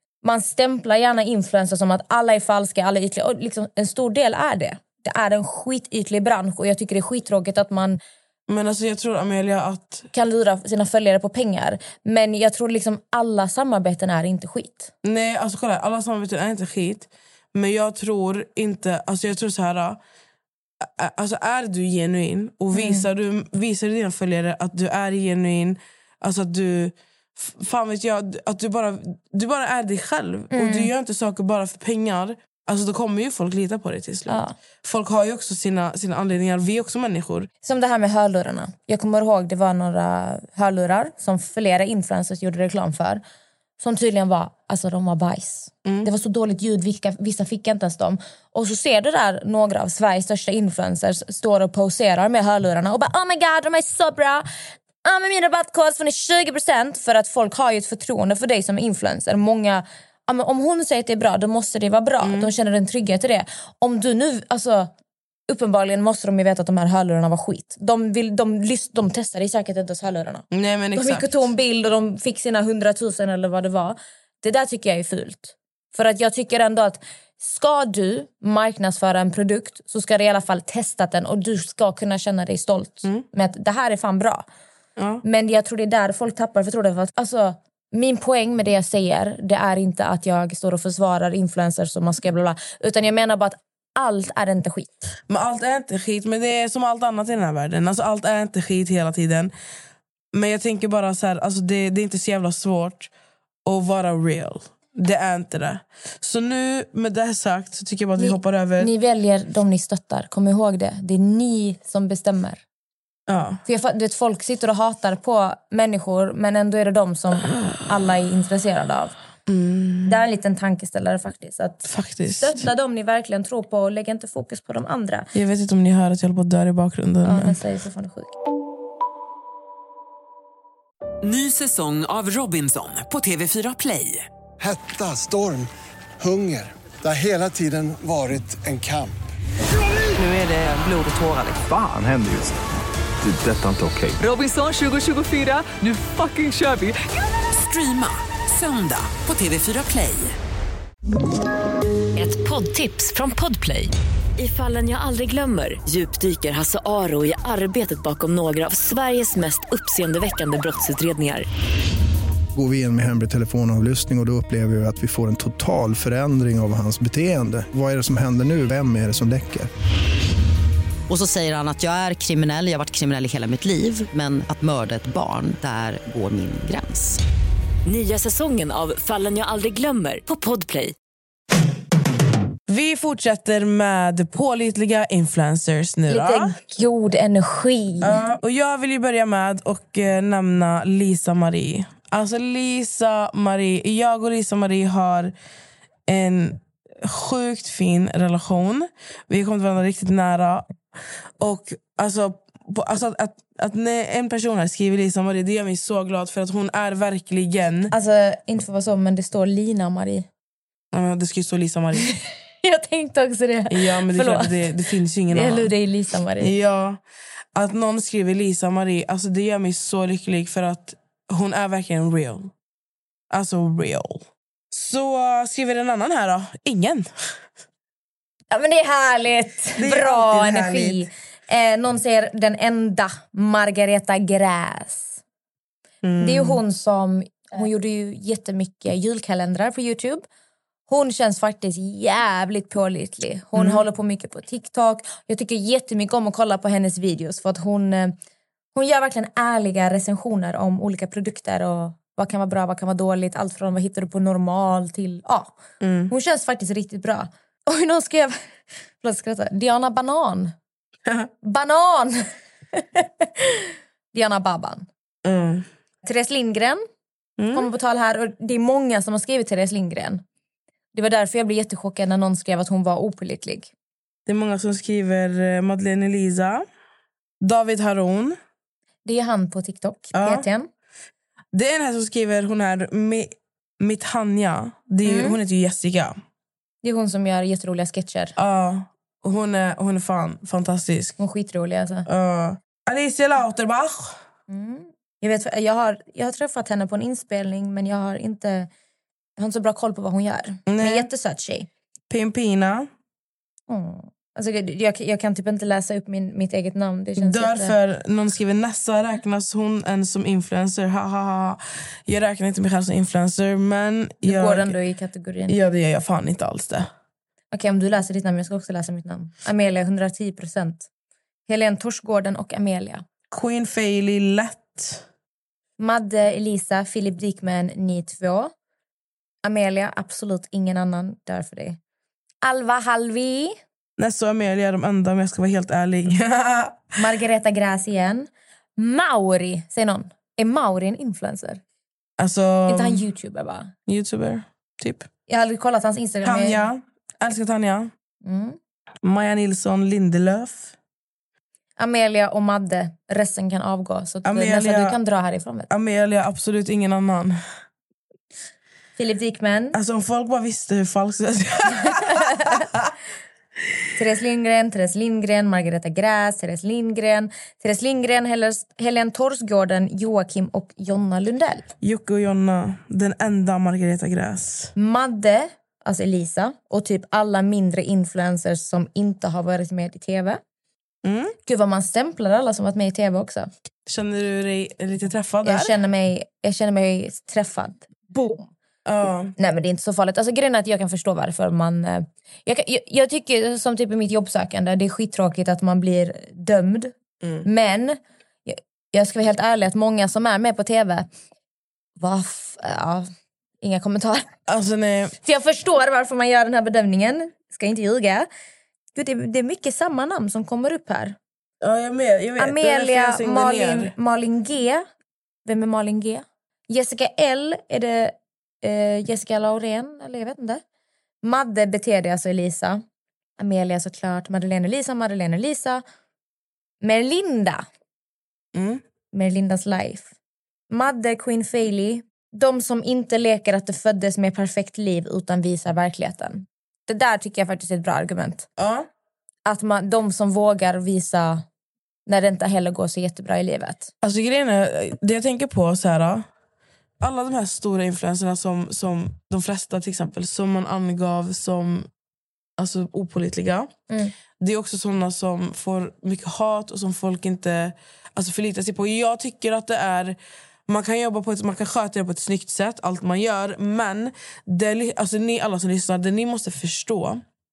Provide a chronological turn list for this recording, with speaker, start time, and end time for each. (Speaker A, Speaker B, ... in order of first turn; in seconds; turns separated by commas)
Speaker A: 0.2-8.0, Speaker B: 8.5-10.1, Speaker A: 10.1-14.9, Speaker B: 15.0-20.0, Speaker B: 20.8-37.5, Speaker A: 22.7-23.1, Speaker A: 30.5-30.9, Speaker A: 34.3-34.6, Speaker A: 37.6-43.2, Speaker A: 43.8-54.5, Speaker B: 45.9-46.1, Speaker A: 55.0-64.9, Speaker B: 62.2-62.5, Speaker A: 65.5-84.5, Speaker B: 70.5-71.5, Speaker B: 85.0-85.2, Speaker A: 85.2-95.0, Speaker B: 95.3-99.5, Speaker B: 100.3-103.1, Speaker B: 103.6-108.9, Speaker A: 108.2-112.6, Speaker B: 113.3-113.6, Speaker A: 113.7-119.1, Speaker B: 119.5-120.2, Speaker A: 120.1-121.9, Speaker B: 121.8-122.7, Speaker A: 122.4-125.3, Speaker B: 125.3-127.6, Speaker A: 127.2-128.3, Speaker C: 131.2-134.3, Speaker D: 134.6-139.2, Speaker C: 140.1-141.6, Speaker E: 141.7-142.6, Speaker E: 143.2-144.2, Speaker C: 144.2-146.9, Speaker C: 147.5-150.4, Speaker F: 152.2-161.5, Speaker G: 162.5-169.7, Speaker H: 171.1-177.2, Speaker F: 177.8-180.9, Speaker B: 182.7-186.5, Speaker A: 186.1-188.2, Speaker B: 188.0-195.3, Speaker B: 196.1-200.7, Speaker B: 201.4-207.9, Speaker A: 207.9-210.3, Speaker B: 210.9-212.1, Speaker A: 212.6-214.7, Speaker B: 213.7-215.7, Speaker A: 215.3-216.5, Speaker B: 216.4-217.0, Speaker B: 217.5-222.5, Speaker B: 223.3-227.4, Speaker A: 228.5-235.2, Speaker B: 229.8-231.0, Speaker B: 236.0-236.6, Speaker A: 236.2-240.2, Speaker A: 240.9-248.2, Speaker B: 243.6-243.8, Speaker A: 248.7-255.6, Speaker B: 255.8-256.1, Speaker A: 256.1-258.4, Speaker A: 259.0-260.5, Speaker A: 261.4-264.9, Speaker B: 265.2-265.6, Speaker A: 266.0-266.8, Speaker B: 267.4-267.7, Speaker A: 267.5-270.2, Speaker A: 270.9-273.7, Speaker B: 274.3-276.6, Speaker B: 277.4-278.4, Speaker A: 279.1-280.7, Speaker B: 280.1-280.4, Speaker B: 281.5-286.1, Speaker A: 285.1-285.4, Speaker A: 286.8-288.4, Speaker B: 288.4-291.1, Speaker A: 291.2-292.1, Speaker B: 292.1-294.2, Speaker A: 294.5-298.7, Speaker A: 299.4-301.7, Speaker B: 300.7-301.1, Speaker B: 302.1-302.9, Speaker A: 303.7-307.8, Speaker B: 307.2-314.8, Speaker A: 314.2-315.6, Speaker B: 315.5-316.9, Speaker A: 317.5-320.9, Speaker A: 321.5-323.1, Speaker B: 323.3-325.0, Speaker A: 325.8-328.5, Speaker A: 329.4-331.8, Speaker A: 332.4-333.6, Speaker B: 334.0-336.9, Speaker A: 336.9-341.6, Speaker B: 342.2-343.0, Speaker A: 342.7-343.7, Speaker B: 343.9-345.1, Speaker A: 345.3-346.6, Speaker B: 346.2-347.9, Speaker A: 348.2-348.6, Speaker B: 349.0-350.7, Speaker A: 351.8-355.7, Speaker B: 354.2-355.0, Speaker B: 355.7-357.4, Speaker A: 359.0-359.8, Speaker B: 359.7-362.9, Speaker A: 362.2-362.6, Speaker A: 363.9-371.7, Speaker B: 371.8-374.7, Speaker A: 374.8-380.4, Speaker B: 381.0-381.4, Speaker A: 381.4-383.5, Speaker B: 383.9-385.8, Speaker A: 385.4-388.5, Speaker B: 388.9-389.4, Speaker A: 389.4-396.9, Speaker A: 397.4-401.1, Speaker A: 402.0-403.1, Speaker A: 403.6-404.3, Speaker B: 404.5-405.1, Speaker A: 405.2-408.3, Speaker A: 408.9-411.2, Speaker B: 411.6-413.9, Speaker A: 412.4-414.9, Speaker A: 415.4-420.6, Speaker A: 421.2-422.8, Speaker A: 423.4-425.8, Speaker A: 426.8-427.6, Speaker B: 428.6-428.8, Speaker A: 429.1-430.1, Speaker A: 430.7-438.4, Speaker B: 438.6-438.9, Speaker A: 439.5-441.4, Speaker A: 442.1-443.9, Speaker B: 444.0-446.3, Speaker B: 447.0-451.9, Speaker B: 452.6-453.7, Speaker B: 454.4-460.1, Speaker B: 460.7-467.2